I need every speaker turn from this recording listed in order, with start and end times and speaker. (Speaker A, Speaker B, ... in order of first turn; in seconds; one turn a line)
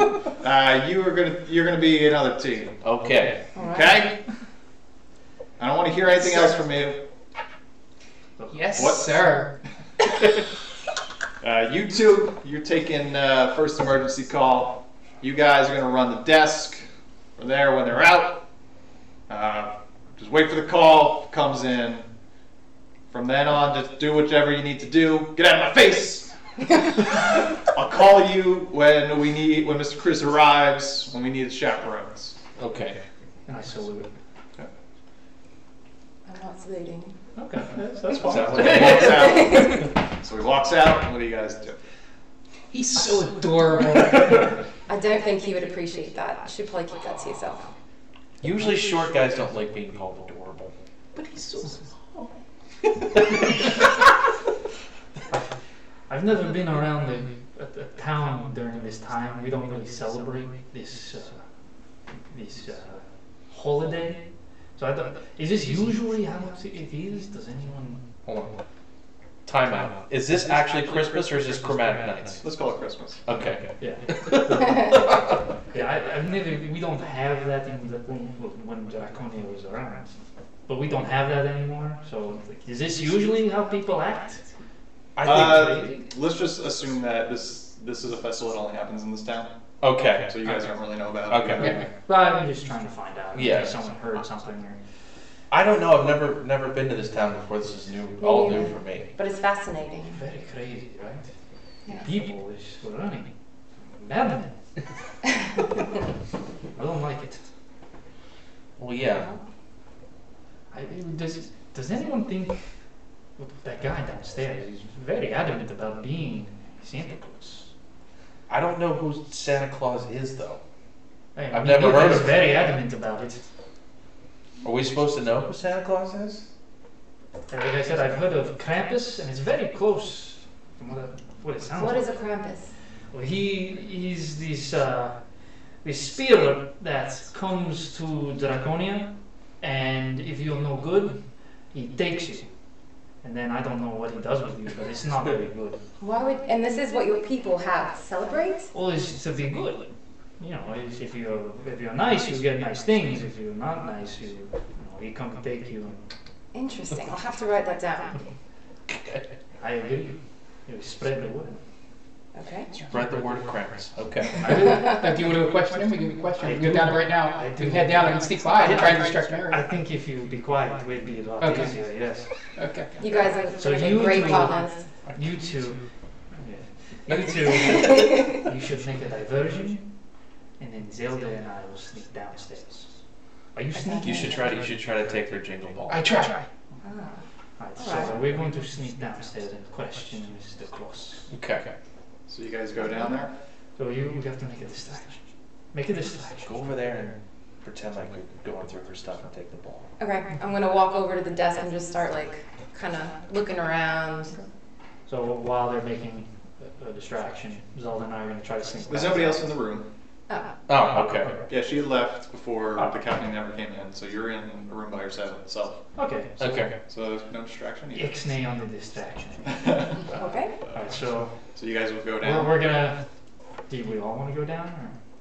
Speaker A: 0.4-2.8
Speaker B: 2.8-3.5
Speaker C: 3.5-4.0
Speaker A: 3.6-4.1
Speaker A: 5.6-7.0
Speaker D: 8.4-8.8
Speaker E: 8.5-9.5
Speaker A: 8.8-9.2
Speaker A: 11.4-16.8
Speaker A: 17.4-18.4
Speaker A: 19.3-22.1
Speaker A: 23.1-26.3
Speaker A: 26.8-32.4
Speaker B: 32.6-33.0
Speaker D: 33.5-34.1
Speaker C: 36.2-37.1
Speaker D: 37.4-39.3
Speaker B: 38.1-39.8
Speaker A: 38.2-41.8
Speaker C: 39.0-39.8
Speaker E: 42.7-44.5
Speaker C: 44.9-47.7
Speaker B: 48.4-50.7
Speaker E: 51.1-52.3
Speaker D: 56.1-61.4
Speaker D: 62.1-68.0
Speaker B: 68.2-68.5
Speaker B: 69.5-72.4
Speaker A: 72.4-73.2
Speaker B: 73.2-75.4
Speaker D: 73.3-80.1
Speaker D: 80.7-84.5
Speaker B: 85.2-85.7
Speaker D: 85.2-86.1
Speaker A: 85.2-89.5
Speaker B: 89.8-90.3
Speaker A: 90.3-91.8
Speaker B: 91.3-91.8
Speaker D: 91.6-94.8
Speaker B: 93.3-93.8
Speaker B: 95.5-99.1
Speaker C: 98.2-100.2
Speaker D: 100.1-101.3
Speaker D: 101.9-104.6
Speaker D: 106.7-107.4
Speaker B: 108.8-109.3
Speaker D: 110.7-112.8
Speaker D: 113.4-117.7
Speaker B: 118.5-120.6
Speaker D: 121.3-123.4
Speaker B: 121.5-122.5
Speaker B: 124.6-126.4
Speaker D: 127.5-132.1
Speaker C: 131.8-132.7
Speaker D: 133.1-135.2
Speaker D: 135.8-142.5
Speaker D: 143.2-145.8
Speaker C: 146.0-148.7
Speaker D: 148.7-156.0
Speaker C: 156.5-158.2
Speaker B: 158.9-159.2
Speaker D: 159.6-161.6
Speaker C: 162.3-162.7
Speaker B: 162.9-164.7
Speaker D: 164.4-165.0
Speaker E: 164.8-169.6
Speaker D: 166.4-172.3
Speaker E: 171.4-171.7
Speaker E: 172.6-172.9
Speaker D: 173.0-179.9
Speaker C: 173.0-174.8
Speaker B: 177.1-177.9
Speaker C: 177.9-178.2
Speaker D: 180.6-182.9
Speaker D: 183.5-184.5
Speaker C: 183.7-184.3
Speaker B: 184.0-186.2
Speaker E: 185.9-186.4
Speaker C: 186.8-187.2
Speaker D: 187.6-191.3
Speaker C: 187.8-188.1
Speaker B: 191.3-191.7
Speaker A: 192.3-193.3
Speaker D: 193.8-196.8
Speaker B: 196.4-199.9
Speaker C: 200.0-204.4
Speaker D: 205.1-209.4
Speaker A: 208.9-209.8
Speaker C: 210.3-210.5
Speaker B: 210.7-211.4
Speaker A: 211.5-215.8
Speaker D: 215.9-216.6
Speaker B: 216.4-216.8
Speaker A: 216.5-218.2
Speaker D: 217.9-219.9
Speaker A: 219.6-220.8
Speaker C: 220.1-220.5
Speaker D: 220.7-221.4
Speaker A: 221.4-222.5
Speaker D: 222.2-223.0
Speaker D: 223.7-224.9